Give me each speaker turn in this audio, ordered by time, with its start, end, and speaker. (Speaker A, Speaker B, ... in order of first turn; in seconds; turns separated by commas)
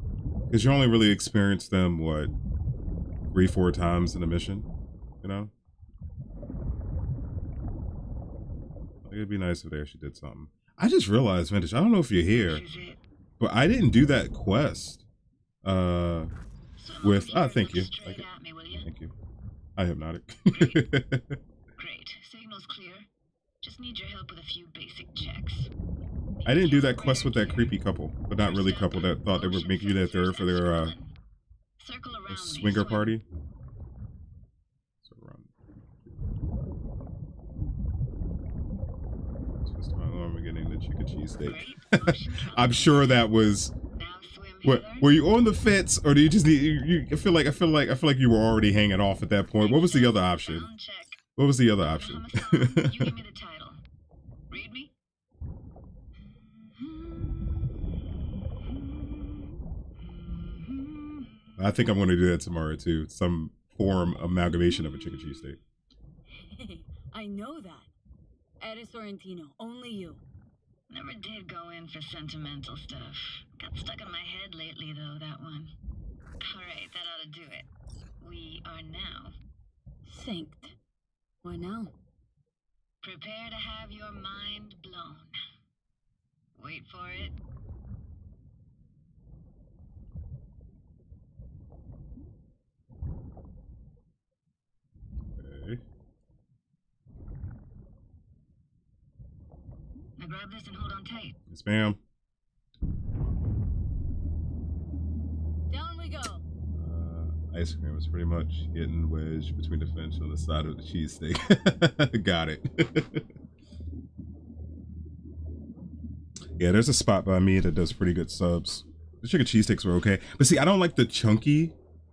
Speaker A: 0.5-2.3, Speaker A: 3.3-4.7, Speaker A: 5.2-5.5, Speaker A: 9.0-12.6, Speaker B: 12.3-13.0, Speaker A: 13.4-15.0, Speaker A: 15.6-16.3, Speaker B: 16.8-18.9, Speaker A: 17.0-19.1, Speaker A: 19.8-21.4, Speaker B: 20.5-20.9, Speaker B: 21.8-23.1, Speaker B: 23.6-25.7, Speaker B: 26.4-27.8, Speaker A: 26.4-30.9, Speaker B: 28.4-31.1, Speaker B: 31.8-33.2, Speaker A: 32.3-33.2, Speaker A: 35.0-35.5, Speaker A: 39.6-43.7, Speaker B: 41.4-43.3, Speaker B: 43.9-45.2, Speaker A: 44.6-50.7, Speaker B: 49.5-51.2, Speaker A: 51.4-53.2, Speaker B: 51.9-53.8, Speaker B: 54.5-54.9, Speaker B: 56.3-57.4, Speaker B: 58.8-59.3, Speaker B: 60.0-61.3, Speaker A: 61.6-65.6, Speaker B: 64.9-65.5, Speaker C: 66.4-67.9, Speaker C: 68.6-70.2, Speaker B: 70.9-75.8, Speaker B: 76.4-77.7, Speaker B: 78.2-79.3, Speaker C: 80.0-80.7, Speaker C: 81.4-81.9, Speaker B: 83.0-85.3, Speaker B: 86.5-87.4, Speaker A: 95.3-95.8, Speaker B: 100.2-101.4, Speaker A: 101.5-102.0, Speaker C: 105.7-106.4, Speaker A: 106.7-113.2, Speaker A: 116.6-121.7